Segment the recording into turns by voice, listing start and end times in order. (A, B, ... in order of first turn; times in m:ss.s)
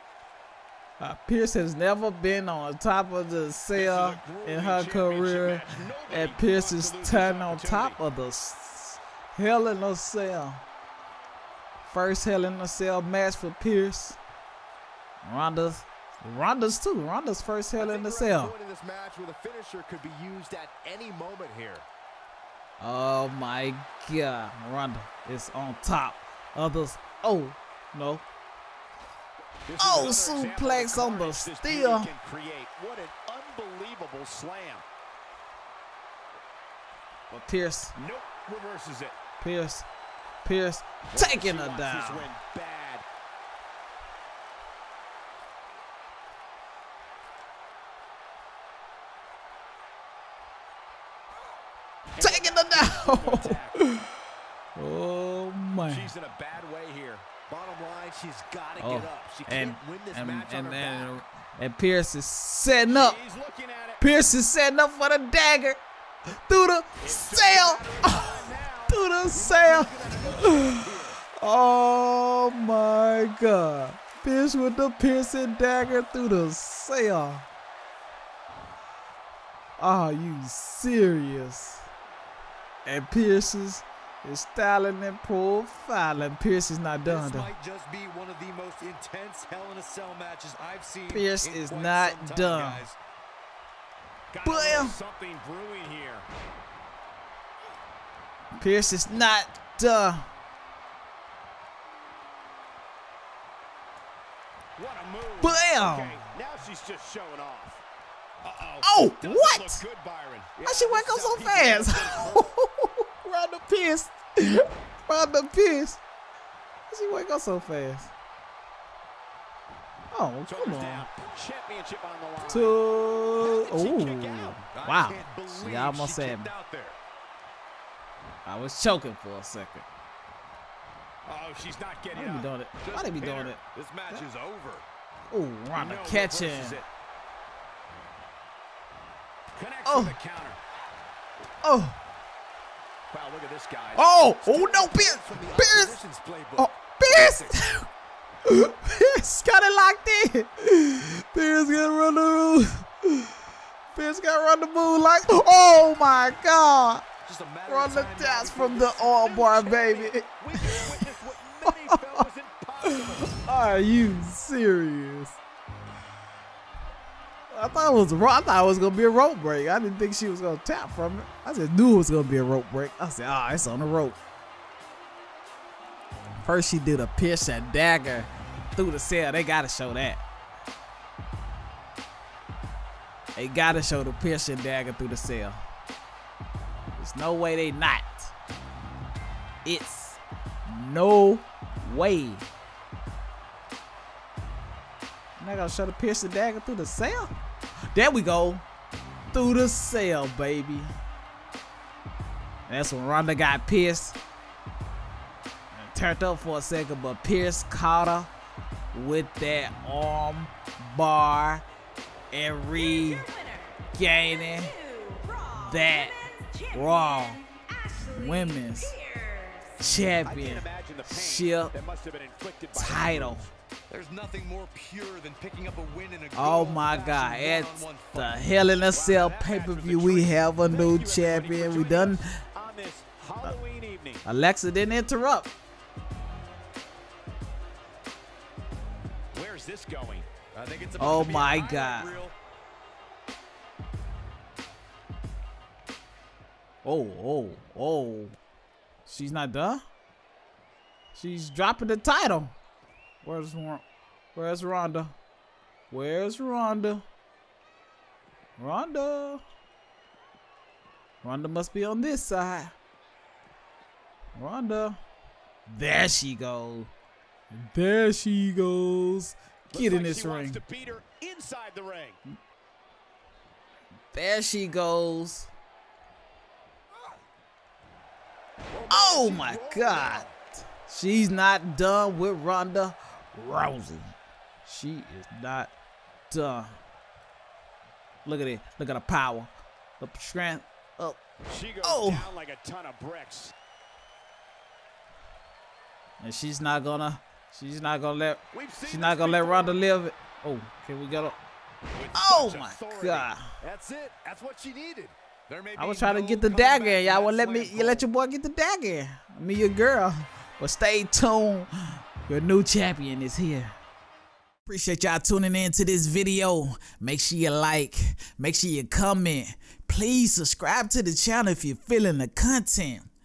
0:01.0-0:10.6 A
0:03.8-0:08.0 B
0:11.9-0:14.2 A
0:15.2-0:18.5 A
0:17.8-0:21.8 C
0:22.8-0:28.2 A
0:29.7-0:34.8 B
0:29.8-0:32.1 A
0:37.3-0:37.9 A
0:37.9-0:39.2 B
0:39.4-0:39.9 A
0:40.4-0:42.3 A
0:41.1-0:43.0 B
0:52.2-0:53.8 B
0:52.2-0:54.0 A
0:54.8-0:56.1 A
0:55.9-0:57.3 B
0:57.5-1:01.1 C
0:58.1-0:58.3 D
0:58.8-1:03.2 A
1:02.9-1:04.0 B
1:04.0-1:05.8 A
1:06.4-1:17.4 A
1:07.0-1:09.0 B
1:09.7-1:10.7 C
1:19.8-1:21.9 A
1:22.8-1:27.5 A
1:27.0-1:33.0 D
1:31.1-1:32.8 A
1:34.3-1:36.2 B
1:34.4-1:35.0 A
1:38.6-1:40.2 A
1:44.8-1:47.8 B
1:45.4-1:46.2 A
1:48.4-1:52.4 B
1:48.8-1:49.8 A
1:50.6-1:56.0 A
1:56.9-1:58.1 A
2:00.1-2:01.1 A
2:00.5-2:02.8 B
2:02.4-2:06.5 A
2:03.8-2:04.6 B
2:04.6-2:07.0 D
2:08.4-2:09.8 A
2:11.2-2:12.5 B
2:12.1-2:14.2 A
2:12.8-2:14.8 D
2:15.3-2:16.8 A
2:15.8-2:16.8 B
2:19.6-2:20.6 B
2:19.8-2:20.2 A
2:21.6-2:22.0 A
2:23.1-2:24.0 B
2:23.9-2:26.0 A
2:24.4-2:26.7 C
2:25.0-2:25.8 D
2:26.6-2:27.9 A
2:27.0-2:27.6 D
2:28.4-2:33.3 A
2:33.9-2:37.0 A
2:37.2-2:40.7 D
2:37.7-2:41.0 A
2:39.6-2:40.1 C
2:40.8-2:43.0 C
2:41.6-2:42.2 A
2:42.8-2:45.4 A
2:47.5-2:54.2 A
2:56.4-3:00.2 A
3:03.4-3:05.6 A
3:06.9-3:08.3 A
3:09.6-3:12.4 A
3:15.4-3:17.3 A
3:17.9-3:18.6 A
3:19.3-3:20.9 A
3:22.7-3:24.2 A
3:25.7-3:28.3 A
3:28.9-3:31.6 A
3:32.3-3:33.2 A
3:32.7-3:39.8 E
3:33.9-3:34.7 A
3:35.6-3:36.1 A
3:36.7-3:37.4 A
3:38.1-3:39.0 A
3:39.8-3:41.7 A
3:40.2-3:43.4 B
3:42.7-3:43.5 A
3:43.9-3:48.5 D
3:46.3-3:52.3 A
3:48.9-3:54.2 B
3:54.2-3:55.5 A
3:59.3-4:00.3 B
4:00.5-4:02.3 D
4:01.0-4:02.1 A
4:06.8-4:08.3 A
4:09.1-4:09.8 A
4:11.1-4:12.5 A
4:13.2-4:13.8 A
4:14.3-4:15.1 A
4:15.9-4:17.0 A
4:18.6-4:19.4 A
4:21.2-4:22.7 A
4:24.4-4:25.0 A
4:25.7-4:26.9 A
4:27.5-4:30.6 A
4:29.7-4:32.2 B
4:34.1-4:35.5 A
4:38.7-4:40.3 C
4:38.9-4:45.7 A
4:46.3-4:46.8 A
4:48.2-4:51.2 A
4:51.5-4:53.5 B
4:51.8-4:52.3 A
4:56.2-5:01.4 A
4:58.5-4:59.7 B
5:01.9-5:03.3 B
5:02.1-5:03.4 A
5:03.6-5:05.1 C
5:05.5-5:08.0 D
5:05.8-5:11.7 A
5:12.2-5:13.7 A
5:14.6-5:23.1 A